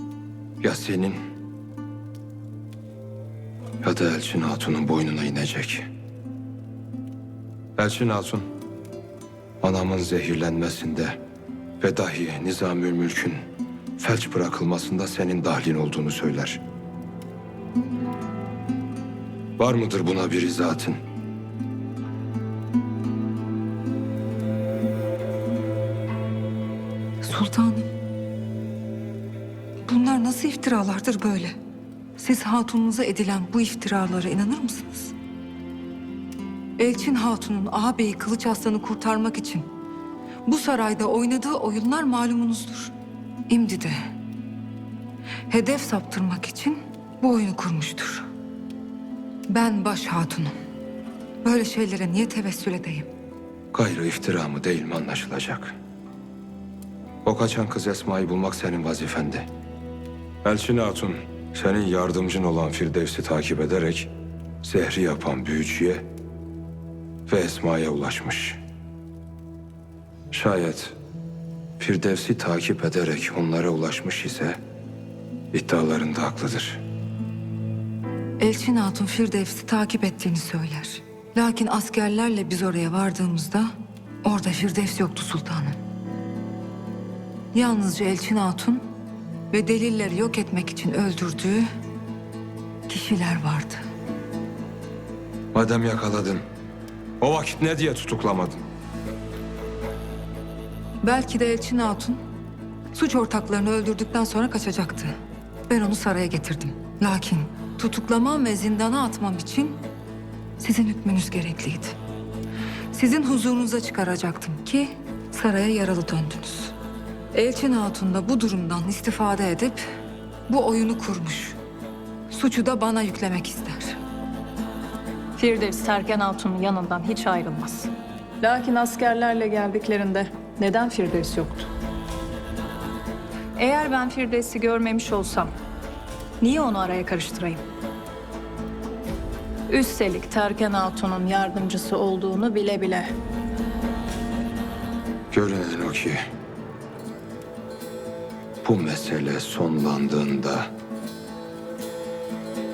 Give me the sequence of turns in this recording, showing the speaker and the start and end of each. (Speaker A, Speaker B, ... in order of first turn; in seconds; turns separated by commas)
Speaker A: 0.6-1.2, Speaker A: 3.8-5.8, Speaker A: 7.8-8.4, Speaker A: 9.6-11.2, Speaker A: 11.8-13.4, Speaker A: 14.0-16.6, Speaker A: 19.6-21.0, Speaker B: 27.2-27.9, Speaker B: 29.9-31.6, Speaker B: 32.2-35.1, Speaker B: 36.8-39.6, Speaker B: 40.5-42.9, Speaker B: 43.5-44.0, Speaker B: 45.5-48.2, Speaker B: 49.5-50.5, Speaker B: 51.4-53.1, Speaker A: 53.7-55.7, Speaker A: 57.2-59.5, Speaker A: 60.4-64.1, Speaker A: 64.6-66.0, Speaker A: 67.3-68.6, Speaker A: 70.3-70.9, Speaker A: 71.8-74.6, Speaker A: 75.5-76.8, Speaker B: 78.4-83.7, Speaker B: 84.2-85.8, Speaker B: 87.5-88.8, Speaker B: 89.5-91.7, Speaker B: 92.9-93.8, Speaker A: 95.5-96.4, Speaker A: 97.2-98.6, Speaker B: 101.0-102.2, Speaker B: 102.9-105.1, Speaker B: 105.7-109.8, Speaker B: 110.6-111.9, Speaker B: 112.9-116.7, Speaker B: 117.3-119.8, Speaker B: 120.5-121.6, Speaker B: 122.3-124.0, Speaker C: 125.4-131.7, Speaker C: 133.6-135.5, Speaker C: 136.4-137.6, Speaker C: 139.7-143.1, Speaker A: 145.3-146.2, Speaker A: 148.6-150.7